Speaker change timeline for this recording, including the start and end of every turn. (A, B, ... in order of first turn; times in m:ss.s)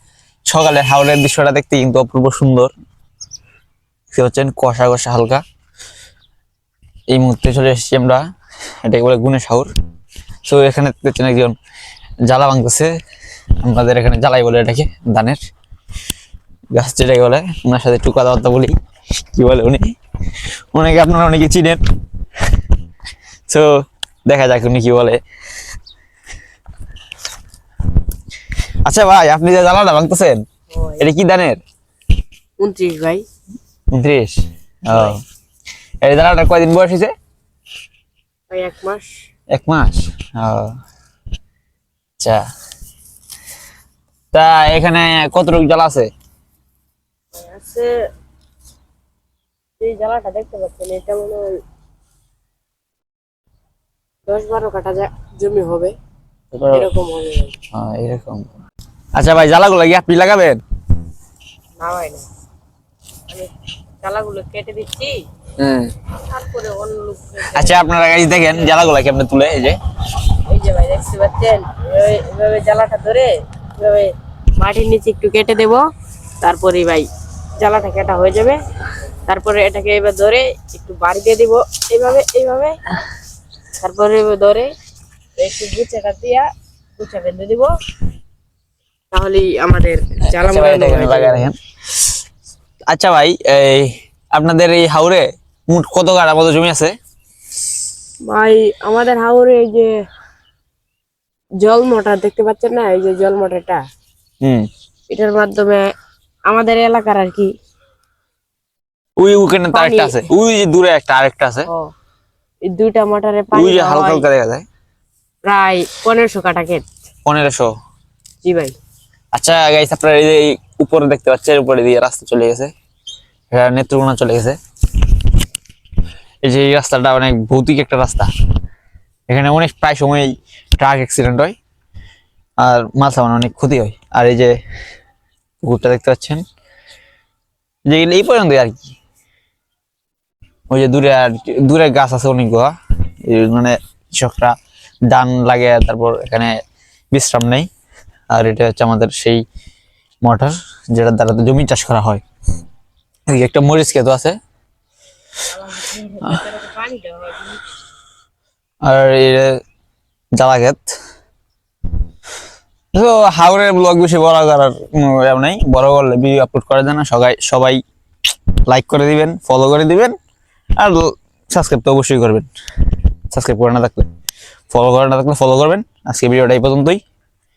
0:00.5-0:02.7 A
0:04.1-0:05.4 A
0:07.1-0:08.2 A
0:08.8-0:09.7 A
0:10.5-0:11.6 A
0:12.3-0:12.9 A
0:13.6-0:15.4 A
0:16.7-0:18.8 A
0:19.3-0:19.9 A
0:20.7-0:21.8 A
0:24.3-0:25.2 A
0:28.8-0:30.4 A
0:30.7-0:31.1 B
0:31.0-0:31.6 A
0:32.6-0:33.2 B
0:33.9-0:35.2 A
0:34.9-0:35.2 B
0:36.0-0:37.1 A
0:38.5-0:39.1 B
0:39.5-0:40.7 A
0:42.2-0:42.4 A
0:44.3-0:46.1 A
0:47.4-0:47.9 B
0:49.8-0:51.6 B
0:54.3-0:55.9 B
0:56.5-0:56.9 A
0:56.7-0:57.6 B
0:57.7-0:58.5 A
0:59.2-1:00.6 A
1:01.8-1:02.3 B
1:04.0-1:05.2 B
1:05.6-1:05.9 A
1:06.2-1:08.8 B
1:07.5-1:09.8 A
1:10.5-1:15.9 B
1:16.4-1:17.1 B
1:17.6-1:18.6 B
1:19.3-1:22.8 B
1:23.8-1:24.7 B
1:25.4-1:26.5 B
1:27.0-1:27.8 B
1:29.1-1:31.5 B
1:30.3-1:31.6 A
1:32.9-1:37.0 A
1:38.3-1:39.9 B
1:41.6-1:43.8 B
1:44.4-1:44.7 A
1:45.1-1:45.8 B
1:46.5-1:47.5 B
1:49.2-1:51.7 A
1:49.7-1:50.3 B
1:52.7-1:54.3 B
1:53.5-1:54.6 A
1:55.5-1:56.8 B
1:57.3-1:57.7 A
1:58.4-1:58.8 B
1:59.3-2:02.7 A
2:03.5-2:04.6 A
2:06.4-2:08.3 A
2:09.3-2:11.6 A
2:12.6-2:14.6 A
2:15.6-2:16.4 A
2:17.9-2:18.9 A
2:20.7-2:24.6 A
2:25.1-2:26.5 A
2:27.1-2:27.7 A
2:28.3-2:29.4 A
2:30.2-2:32.2 A
2:33.3-2:34.4 A
2:35.5-2:37.6 B
2:38.8-2:39.6 A
2:40.4-2:40.9 A
2:42.9-2:47.8 A
2:48.7-2:50.2 A
2:50.8-2:52.5 A
2:53.3-2:54.1 A
2:54.7-2:57.0 A